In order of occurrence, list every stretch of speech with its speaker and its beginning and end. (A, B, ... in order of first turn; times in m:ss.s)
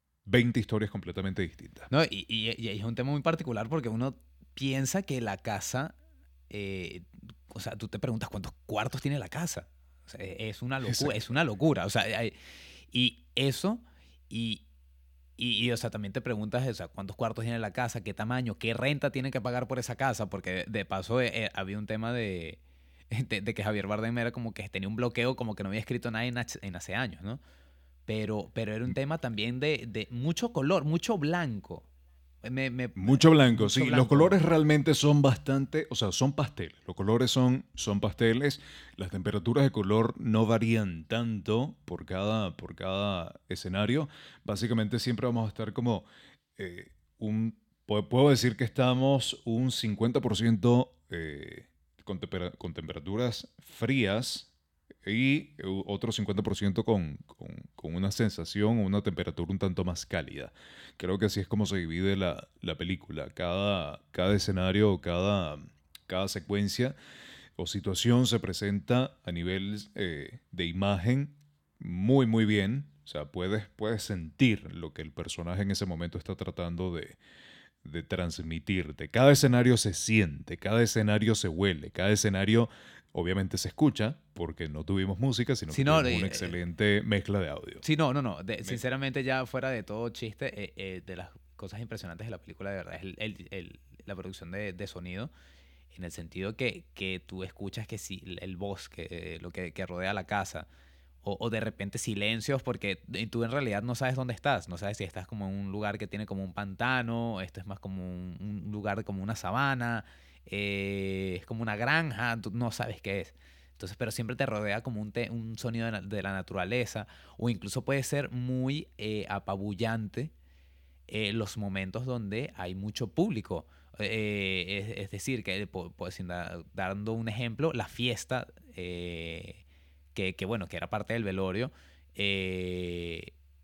0:00.2-0:01.9 A
0:01.9-0:06.0 B
0:06.5-0:12.3 B
0:10.8-0:11.3 A
0:12.9-0:14.6 B
0:15.4-0:22.6 B
0:23.1-0:27.4 B
0:28.1-0:31.9 B
0:32.4-0:34.4 B
0:33.0-0:54.5 A
0:55.0-1:06.9 A
1:07.6-1:17.2 A
1:17.8-1:27.8 A
1:25.7-1:26.6 B
1:27.8-1:35.3 B
1:35.9-1:40.7 B
1:41.2-2:00.3 B
2:01.1-2:09.6 B
2:10.1-2:13.3 B